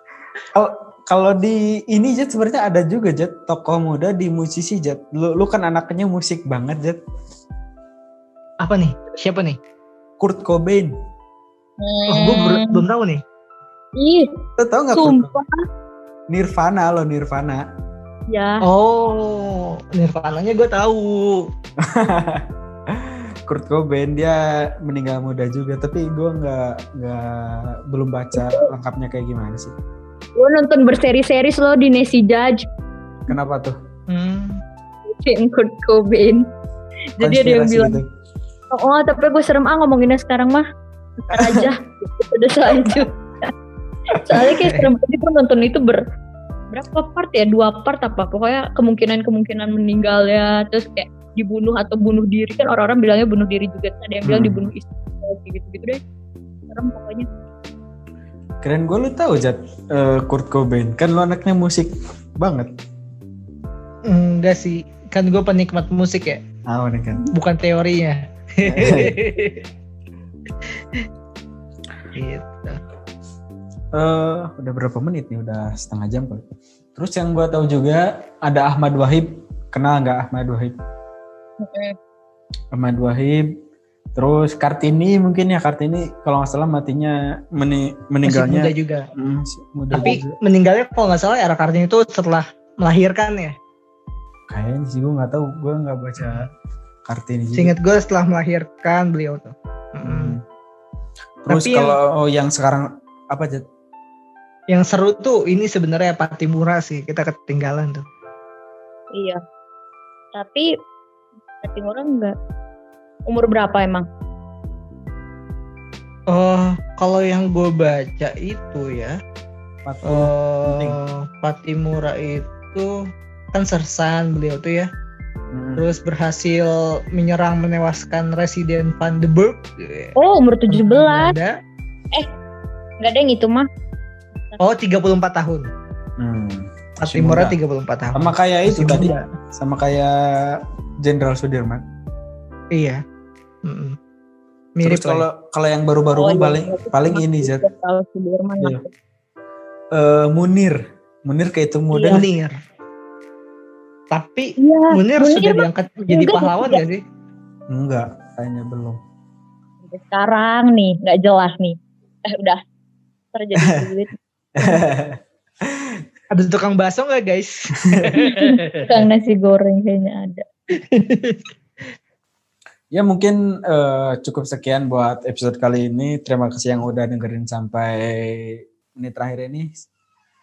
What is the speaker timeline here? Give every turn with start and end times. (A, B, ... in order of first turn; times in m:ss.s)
0:00.5-0:07.0 A
0:08.6-0:09.6 B
0:10.2-0:10.9 A
0:11.8-0:12.8 C
0:12.1-0:13.2 B
0:14.0-0:14.3 C
0:14.6-0:15.3 A
0:14.9-0:15.6 C
0:16.3-0:17.6 A
0:18.3-0:18.6 C
0:18.6-0:21.5 B
0:21.8-0:29.7 A
0:28.4-0:28.6 C
0:30.4-0:32.6 C
0:33.3-0:33.8 A
0:34.1-0:34.6 B
0:35.2-0:36.4 C
0:37.2-0:38.0 C
0:37.2-0:38.0 A
0:38.7-0:40.6 C
0:41.2-0:43.5 C
0:41.3-0:41.7 A
0:44.2-0:46.0 C
0:44.5-0:44.9 B
0:46.7-0:56.0 C
0:54.2-0:54.7 A
0:56.7-0:57.3 C
0:58.6-1:02.7 A
1:04.1-1:06.4 B
1:06.7-1:07.2 A
1:07.3-1:09.6 B
1:08.6-1:09.2 A
1:12.1-1:12.8 B
1:13.9-1:16.4 A
1:17.0-1:20.7 A
1:21.6-1:21.9 C
1:22.7-1:23.4 A
1:24.2-1:30.4 A
1:28.2-1:29.1 B
1:29.9-1:33.5 B
1:34.5-1:36.5 A
1:36.2-1:36.4 B
1:37.1-1:37.7 A
1:37.6-1:40.4 B
1:40.0-1:40.4 A
1:41.4-1:43.6 A
1:41.5-1:42.0 B
1:44.7-1:48.0 B
1:49.1-1:49.4 C
1:50.3-1:50.7 C
1:51.6-1:52.3 C
1:53.3-1:54.0 C
1:56.3-1:59.2 B
1:59.8-2:01.0 A
2:00.0-2:02.9 B
2:03.5-2:04.9 B
2:05.5-2:05.8 A
2:05.8-2:10.1 B
2:10.2-2:11.3 C
2:10.7-2:11.5 B
2:13.0-2:13.7 C
2:14.6-2:15.7 B
2:16.2-2:17.6 A
2:17.0-2:19.2 B
2:18.1-2:21.8 A
2:22.7-2:23.0 B
2:23.6-2:24.0 B
2:24.8-2:25.2 B
2:24.8-2:27.6 A
2:26.1-2:28.9 C
2:29.9-2:32.2 A
2:31.9-2:32.2 C
2:32.1-2:32.5 B
2:34.1-2:37.0 B
2:34.6-2:36.8 C
2:37.7-2:39.0 A
2:39.8-2:41.8 C
2:42.3-2:42.6 C
2:43.3-2:44.1 C
2:44.6-2:46.0 A
2:46.3-2:49.1 B
2:48.2-2:50.4 C
2:50.8-2:51.4 B
2:52.9-2:59.7 A